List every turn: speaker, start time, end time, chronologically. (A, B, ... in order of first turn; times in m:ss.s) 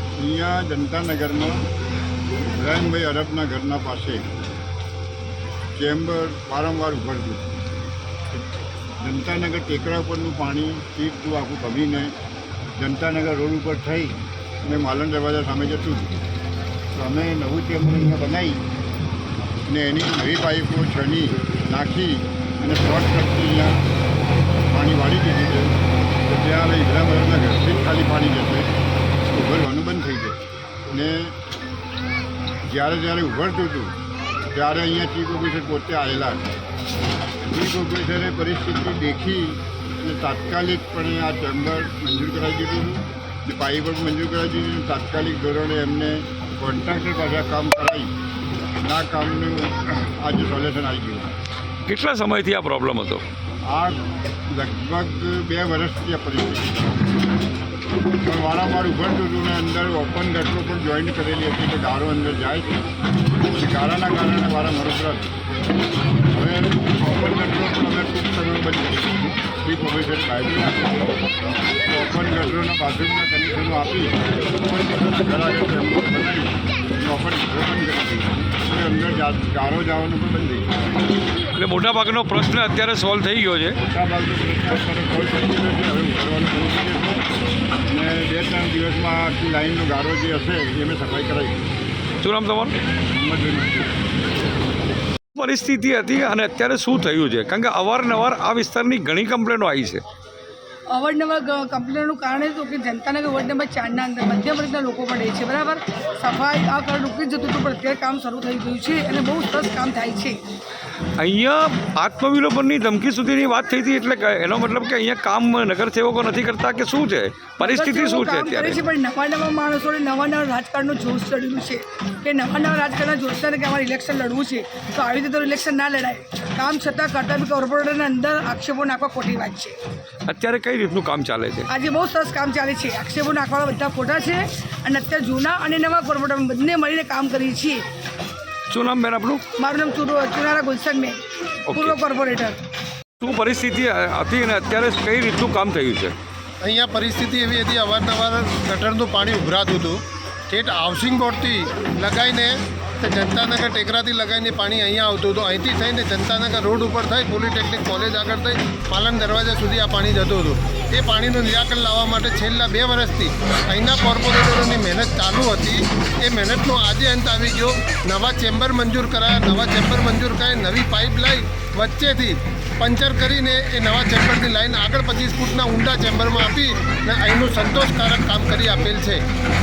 0:00.2-0:01.6 A
0:02.5-0:04.3 A
0:05.7-0:07.6 A
0:09.0-0:12.1 A
0:12.8-0:16.2 A
0:16.9-0:18.6 A
0:19.7-0:23.9 A
0:24.7-0:28.7 A
0:29.3-0:31.4 A
0:32.6-0:34.0 A
0:34.5-0:36.5 A
0:37.5-0:48.1 A
0:48.8-0:51.3 A
0:51.8-0:53.2 B
0:53.7-0:57.1 A
0:58.2-1:02.8 A
1:03.6-1:05.3 A
1:06.3-1:11.1 A
1:11.9-1:20.8 A
1:21.5-1:23.8 B
1:23.8-1:27.2 A
1:27.9-1:31.7 A
1:32.2-1:32.8 B
1:33.1-1:34.0 A
1:35.3-1:40.0 B
1:40.9-1:50.4 C
1:51.2-1:58.8 B
1:57.6-2:09.8 C
2:10.2-2:11.7 B
2:11.7-2:17.8 C
2:18.7-2:19.4 B
2:19.6-2:22.6 C
2:21.7-2:22.0 B
2:23.2-2:26.2 B
2:26.6-2:59.2 D